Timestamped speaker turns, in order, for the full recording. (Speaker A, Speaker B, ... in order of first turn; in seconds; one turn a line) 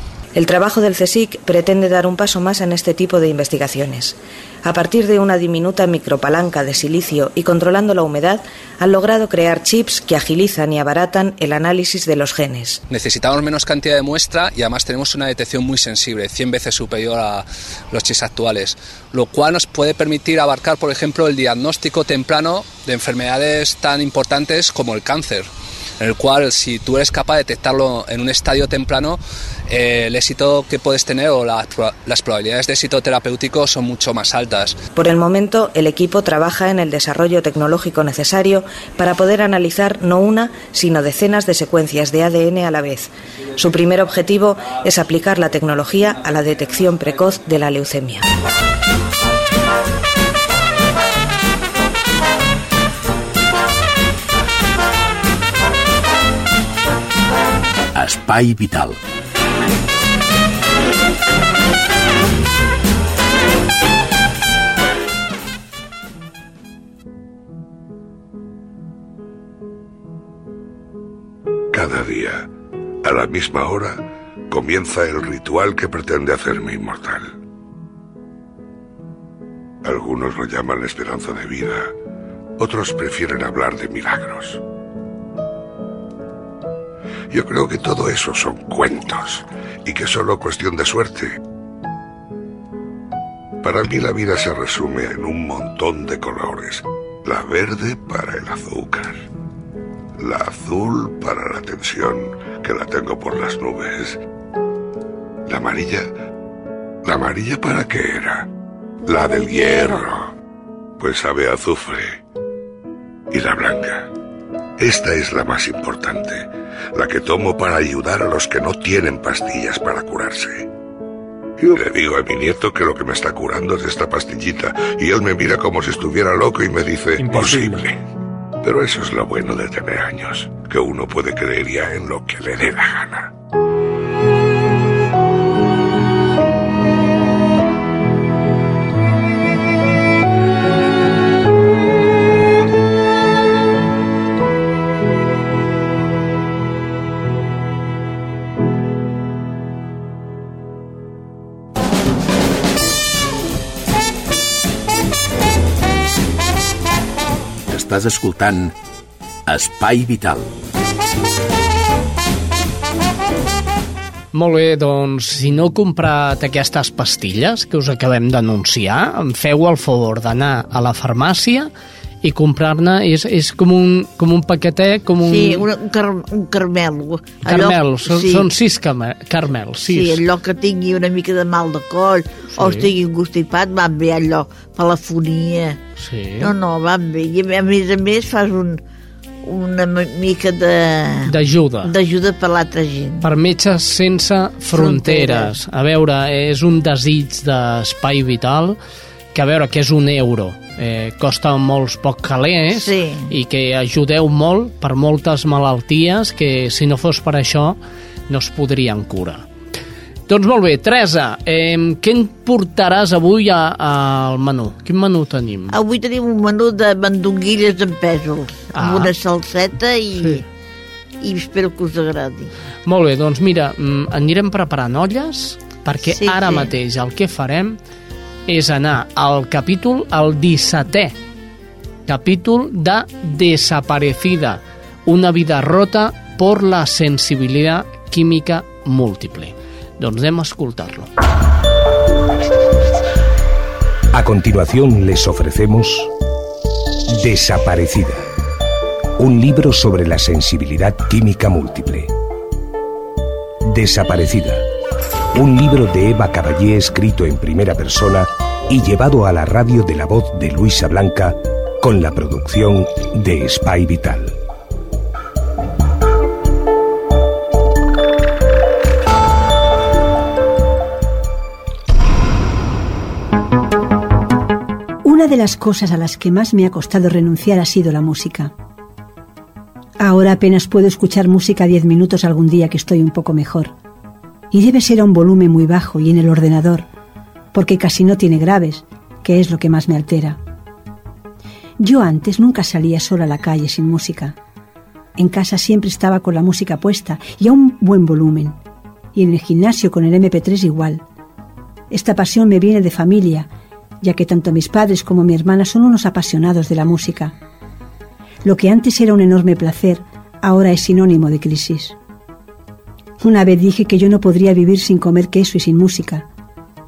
Speaker A: 0.3-12.8
Speaker B: 12.9-25.5
Speaker B: 26.0-34.8
Speaker A: 35.0-48.3
Speaker C: 57.9-59.0
Speaker D: 71.7-72.5
Speaker D: 73.0-77.3
Speaker D: 79.8-81.9
Speaker D: 82.6-84.6
Speaker D: 87.3-91.4
Speaker D: 93.6-99.2
Speaker D: 100.2-104.2
Speaker D: 105.5-106.1
Speaker D: 107.0-108.5
Speaker D: 109.1-110.3
Speaker E: 109.1-110.0
Speaker D: 111.0-112.2
Speaker D: 113.3-114.1
Speaker D: 114.8-120.7
Speaker D: 121.6-128.0
Speaker D: 128.6-133.3
Speaker C: 157.7-158.7
Speaker C: 159.5-160.5
Speaker F: 164.3-171.7
Speaker F: 172.2-175.7
Speaker E: 175.3-178.5
Speaker F: 177.4-180.2
Speaker E: 179.8-185.8
Speaker F: 182.5-182.9
Speaker F: 186.0-186.5
Speaker E: 186.4-188.8
Speaker E: 189.4-193.2
Speaker F: 191.3-191.9
Speaker F: 193.2-198.8
Speaker E: 194.7-195.5
Speaker F: 199.3-207.8
Speaker E: 202.7-203.3
Speaker F: 208.3-209.5
Speaker F: 210.3-215.8
Speaker E: 215.7-220.4
Speaker F: 218.7-219.1
Speaker F: 220.2-220.4
Speaker E: 221.2-222.5
Speaker F: 222.9-227.8
Speaker E: 226.1-226.7
Speaker F: 228.5-231.2
Speaker F: 232.1-241.1
Speaker G: 244.1-246.1
Speaker G: 247.1-248.2
Speaker G: 249.2-252.1
Speaker G: 253.7-254.6
Speaker G: 255.3-264.4
Speaker H: 275.1-278.5
Speaker H: 280.0-283.7
Speaker H: 284.5-286.9
Speaker H: 287.5-290.4
Speaker H: 291.8-294.4
Speaker H: 295.2-298.6
Speaker H: 299.1-301.0
Speaker H: 301.9-303.5
Speaker H: 304.0-307.3
Speaker H: 308.4-312.0
Speaker H: 313.2-316.3